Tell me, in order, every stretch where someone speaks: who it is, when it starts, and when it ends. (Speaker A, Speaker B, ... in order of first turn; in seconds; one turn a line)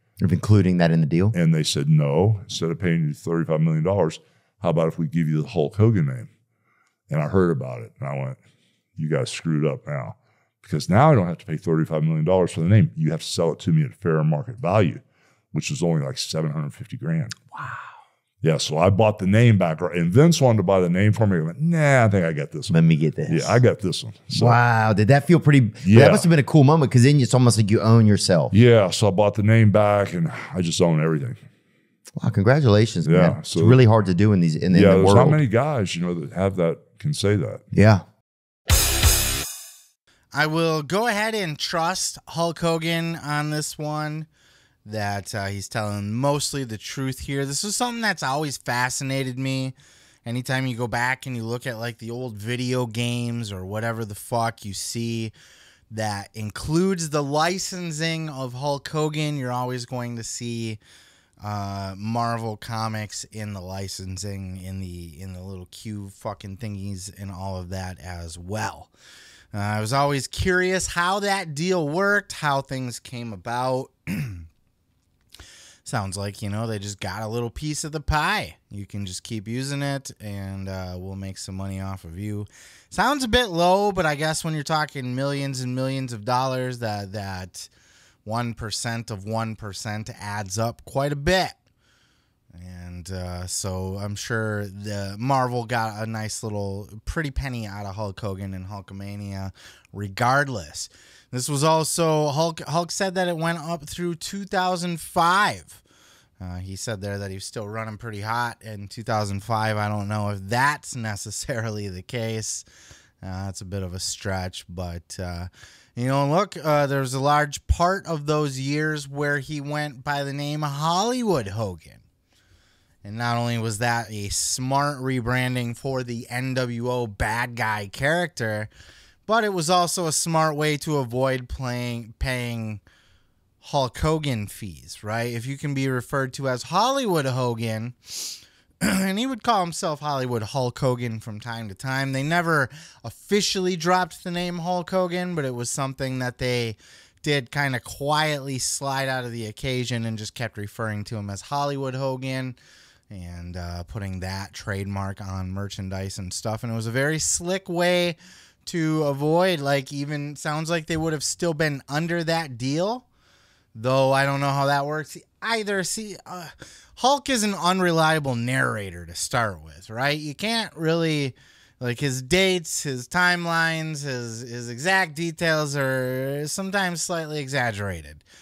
Speaker A: 0.2-1.3
Speaker B: 1.3-6.3
Speaker B: 7.1-8.4
Speaker B: 9.0-15.0
Speaker B: 15.5-17.4
Speaker B: 18.4-24.6
Speaker A: 22.7-23.6
Speaker A: 24.3-28.5
Speaker B: 25.8-26.3
Speaker B: 28.5-31.4
Speaker A: 32.1-35.4
Speaker B: 33.0-33.8
Speaker B: 34.7-37.6
Speaker A: 37.7-38.0
Speaker C: 40.3-44.3
Speaker C: 44.8-55.3
Speaker C: 55.9-60.8
Speaker C: 61.4-68.9
Speaker C: 69.5-74.5
Speaker C: 75.8-87.7
Speaker C: 88.2-91.6
Speaker C: 92.5-105.8
Speaker C: 106.4-112.6
Speaker C: 113.2-122.0
Speaker C: 123.0-128.7
Speaker C: 129.2-132.8
Speaker C: 133.6-152.6
Speaker C: 153.1-163.1
Speaker C: 163.7-178.2